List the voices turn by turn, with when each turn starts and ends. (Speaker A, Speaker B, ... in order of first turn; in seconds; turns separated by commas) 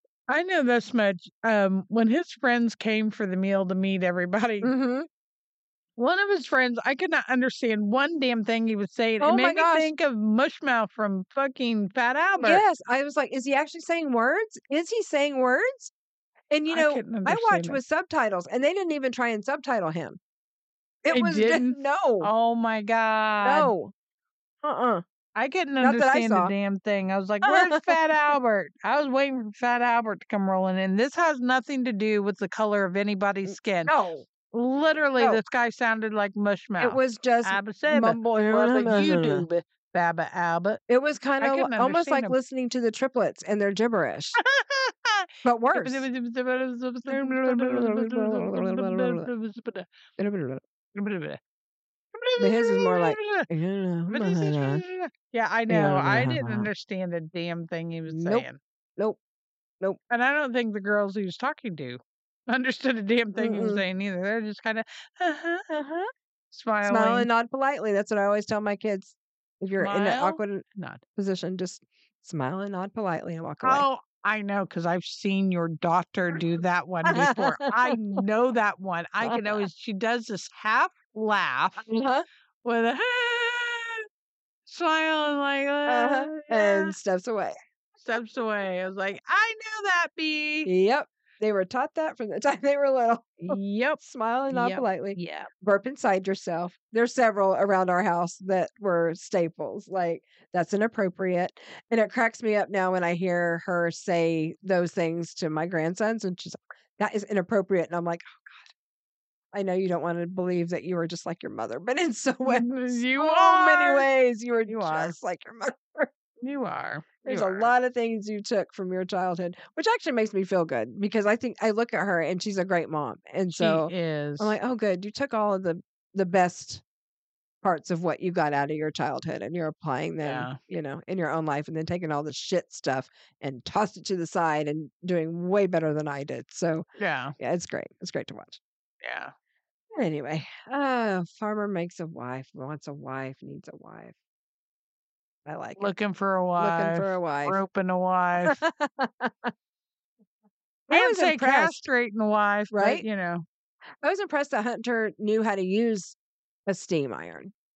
Speaker A: 0.3-4.7, Speaker B: 4.6-5.1, Speaker A: 6.0-12.6, Speaker B: 9.2-9.9, Speaker B: 12.4-15.9, Speaker B: 16.5-20.2, Speaker A: 16.7-17.8, Speaker B: 21.0-22.3, Speaker A: 21.1-23.7, Speaker B: 23.4-23.9, Speaker B: 24.6-25.0, Speaker A: 25.4-34.0, Speaker B: 25.8-26.5, Speaker B: 27.4-27.9, Speaker B: 33.5-34.3, Speaker A: 34.5-40.8, Speaker B: 36.8-39.5, Speaker B: 40.9-44.4, Speaker A: 41.4-42.4, Speaker A: 44.4-49.9, Speaker B: 45.4-46.1, Speaker B: 47.1-49.3, Speaker B: 50.2-50.6, Speaker A: 51.0-51.4, Speaker A: 52.1-53.5, Speaker B: 52.4-54.8, Speaker A: 54.1-58.6, Speaker B: 55.7-56.7, Speaker B: 58.1-58.5, Speaker A: 60.1-65.7, Speaker B: 63.4-63.8, Speaker B: 65.7-66.1, Speaker A: 66.5-67.3, Speaker B: 66.8-70.6, Speaker A: 69.8-71.0, Speaker B: 71.2-73.9, Speaker A: 73.6-81.9, Speaker B: 77.0-77.9, Speaker B: 79.2-79.7, Speaker B: 81.8-82.2, Speaker A: 82.6-84.0, Speaker A: 84.7-87.0, Speaker B: 85.9-87.5, Speaker A: 88.0-90.7, Speaker B: 90.7-108.7, Speaker A: 93.5-94.0, Speaker A: 94.5-95.5, Speaker B: 109.5-116.1, Speaker A: 112.5-114.1, Speaker A: 114.7-115.1, Speaker A: 116.4-117.7, Speaker B: 117.2-126.8, Speaker A: 123.5-124.6, Speaker B: 127.6-136.8, Speaker A: 130.2-130.6, Speaker A: 137.0-137.3, Speaker B: 137.4-138.6, Speaker A: 139.0-139.3, Speaker B: 139.9-144.1, Speaker B: 145.5-145.9, Speaker A: 145.8-148.6, Speaker B: 146.6-147.6, Speaker B: 148.4-149.5, Speaker B: 150.9-151.9, Speaker A: 150.9-153.4, Speaker B: 152.7-153.0, Speaker B: 154.0-156.2, Speaker B: 156.7-157.5